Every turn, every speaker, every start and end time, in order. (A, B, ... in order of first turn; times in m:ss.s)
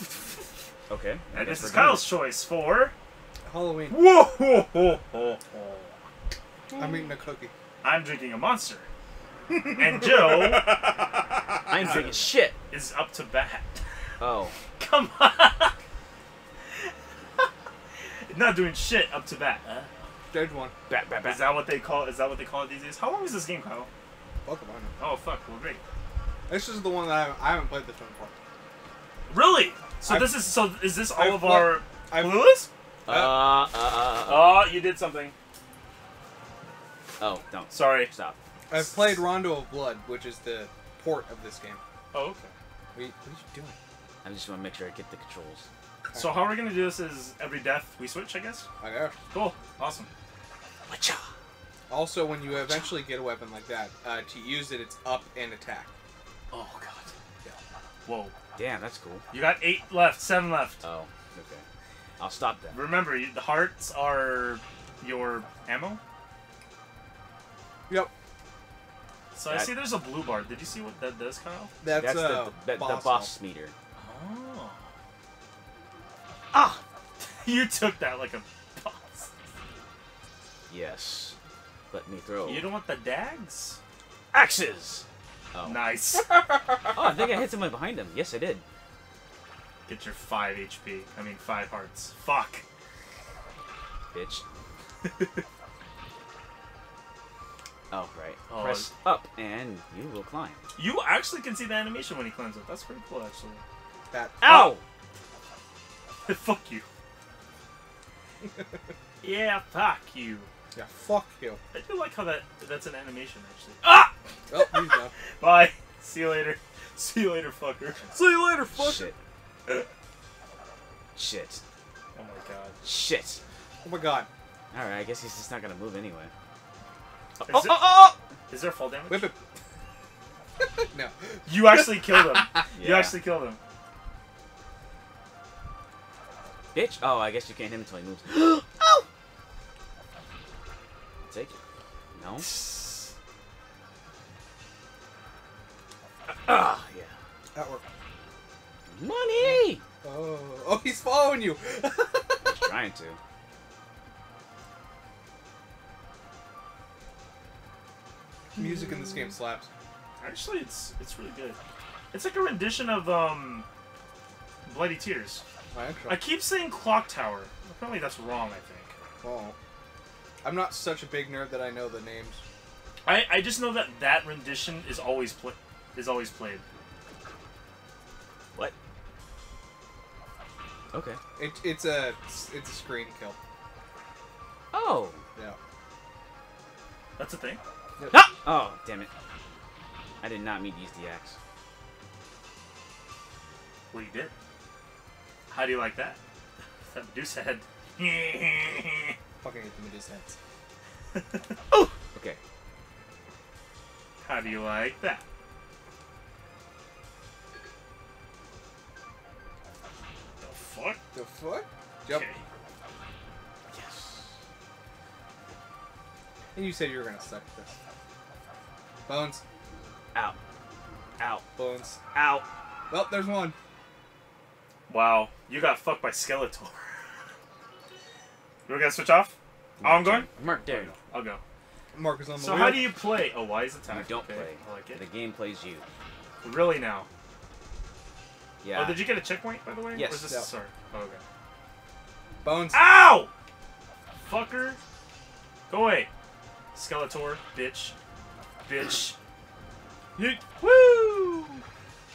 0:00.9-0:02.1 A
0:01.3-0:02.9 B
0:03.5-0:04.0 C
0:03.9-0:06.0 B
0:06.8-0:07.5 C
0:07.8-0:08.9 B
0:09.6-0:11.0 B
0:11.7-0:12.6 A
0:11.7-0:13.8 B
0:14.2-0:14.5 A
0:14.8-0:15.8 B
0:18.3-0:19.9 B
0:20.3-0:20.7 C
0:20.9-0:21.6 A
0:21.2-0:23.9 B
0:24.4-0:24.9 C
0:25.0-0:25.8 B
0:26.5-0:28.3 C
0:29.3-0:32.7 B
0:30.1-0:30.5 C
0:31.1-0:32.5 C
0:33.1-0:34.7 A
0:33.1-0:33.5 C
0:34.2-0:35.4 B
0:37.2-0:38.4 A
0:37.7-0:38.1 B
0:38.7-0:41.8 C
0:42.1-0:42.6 B
0:42.9-0:43.8 C
0:44.2-0:45.7 A
0:46.1-0:46.5 C
0:46.2-0:48.7 B
0:48.8-0:49.2 C
0:49.3-0:50.1 B
0:50.9-0:51.2 A
0:51.9-0:55.9 C
0:56.5-0:57.0 B
0:56.6-0:57.0 A
0:58.1-0:58.3 B
0:58.6-0:59.2 A
0:59.3-1:00.8 B
1:00.8-1:01.6 A
1:02.2-1:02.8 A
1:02.7-1:06.0 B
1:09.3-1:11.7 B
1:09.5-1:09.7 A
1:11.8-1:13.3 C
1:11.9-1:13.7 A
1:14.0-1:14.9 B
1:16.5-1:16.8 A
1:17.4-1:19.4 B
1:20.7-1:21.4 A
1:21.9-1:22.7 A
1:22.4-1:23.8 B
1:24.3-1:25.9 A
1:25.6-1:26.3 B
1:26.3-1:26.8 C
1:26.9-1:28.6 A
1:29.9-1:32.6 B
1:34.1-1:34.4 A
1:37.9-1:40.6 A
1:38.5-1:38.9 B
1:40.8-1:43.6 B
1:44.1-1:44.7 C
1:44.4-1:44.8 A
1:46.3-1:46.9 B
1:49.2-1:50.5 B
1:50.7-1:51.6 C
1:51.7-1:54.8 B
1:54.5-1:55.1 C
1:55.4-1:58.1 B
1:58.1-1:59.1 C
1:58.7-1:59.2 A
2:01.2-2:01.6 A
2:02.2-2:02.8 B
2:02.8-2:03.4 A
2:03.8-2:04.3 C
2:04.7-2:06.3 A
2:07.4-2:08.2 A
2:07.5-2:07.9 B
2:08.5-2:09.3 B
2:09.1-2:09.4 C
2:10.6-2:12.5 C
2:11.5-2:13.6 B
2:12.8-2:13.2 A
2:16.7-2:18.9 A
2:21.3-2:21.6 A
2:22.2-2:22.6 A
2:22.5-2:23.1 B
2:26.3-2:27.1 A
2:27.5-2:27.8 C
2:28.9-2:29.8 A
2:29.4-2:32.5 C
2:32.4-2:33.2 A
2:38.6-2:39.7 C
2:40.2-2:41.6 B
2:42.1-2:43.7 B
2:44.6-2:45.4 B
2:45.7-2:46.2 C
2:46.1-2:49.0 B
2:49.2-2:49.6 C
2:50.4-2:52.4 C
2:53.0-2:56.6 B
3:00.9-3:01.2 A
3:01.4-3:03.4 C
3:04.7-3:05.2 A
3:07.2-3:07.6 B
3:08.0-3:08.3 C
3:08.1-3:09.1 A
3:10.2-3:11.4 A
3:13.9-3:14.3 B
3:15.5-3:16.2 B
3:16.9-3:19.2 B
3:19.4-3:20.4 C
3:21.1-3:21.5 B
3:21.7-3:22.4 A
3:24.2-3:25.2 B
3:30.4-3:31.0 B
3:31.1-3:32.3 C
3:32.1-3:32.4 B
3:33.7-3:34.4 A
3:36.6-3:37.8 C
3:39.1-3:39.4 C
3:41.2-3:41.5 A
3:41.6-3:42.0 C
3:42.1-3:42.5 A
3:42.9-3:43.6 C
3:44.9-3:46.9 B
3:48.7-3:51.4 B
3:49.8-3:50.9 A
3:51.9-3:52.9 C
3:52.4-3:55.0 B
3:53.9-3:55.8 A
3:56.4-3:57.1 B
3:58.6-3:59.0 A
3:58.7-4:01.2 B
4:00.0-4:00.3 A
4:02.4-4:02.9 C
4:02.7-4:03.3 B
4:04.2-4:04.8 B
4:05.7-4:06.1 B
4:06.7-4:08.0 B
4:08.7-4:09.2 B
4:10.2-4:11.6 B